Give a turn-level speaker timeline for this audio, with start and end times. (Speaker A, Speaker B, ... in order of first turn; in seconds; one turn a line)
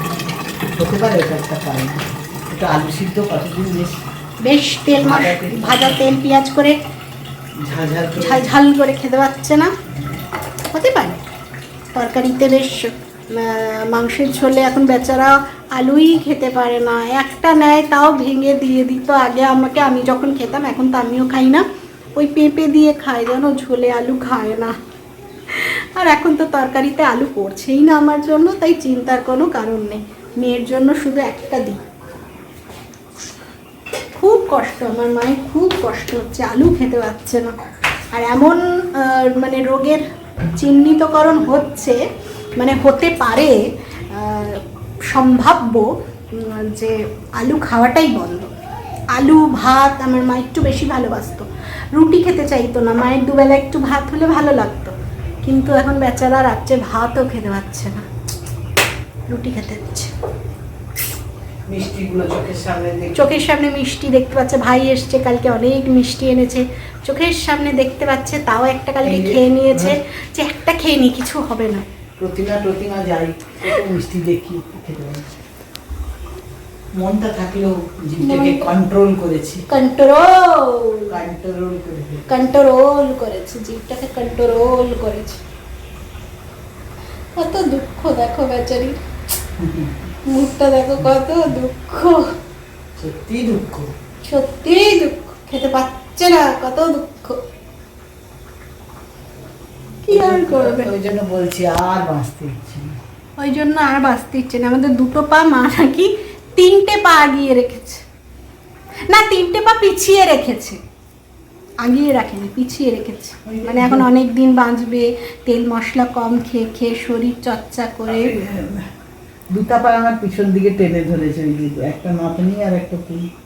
Speaker A: 0.7-4.0
Speaker B: 4.4-6.8
Speaker A: 5.0-6.2
Speaker A: 7.6-8.4
Speaker B: 8.2-9.7
Speaker B: 10.7-11.2
Speaker B: 11.9-21.6
Speaker B: 22.1-24.7
Speaker B: 25.5-31.8
Speaker B: 34.2-37.5
Speaker B: 38.1-40.0
Speaker B: 40.5-42.0
Speaker B: 42.5-48.5
Speaker B: 49.1-58.0
Speaker B: 59.3-60.1
Speaker A: 61.7-63.3
Speaker B: 63.1-71.8
Speaker A: 69.0-70.0
Speaker A: 72.2-75.3
Speaker A: 77.0-79.7
Speaker B: 78.2-78.7
Speaker B: 79.7-81.2
Speaker A: 81.1-82.4
Speaker B: 82.3-85.4
Speaker B: 87.3-89.0
Speaker A: 89.6-90.1
Speaker B: 90.2-92.3
Speaker A: 93.0-93.9
Speaker B: 94.3-97.4
Speaker B: 100.0-100.9
Speaker A: 100.0-103.0
Speaker B: 103.4-108.0
Speaker B: 109.1-110.8
Speaker B: 111.8-118.4
Speaker A: 113.5-114.1
Speaker A: 118.1-118.9
Speaker A: 119.5-123.3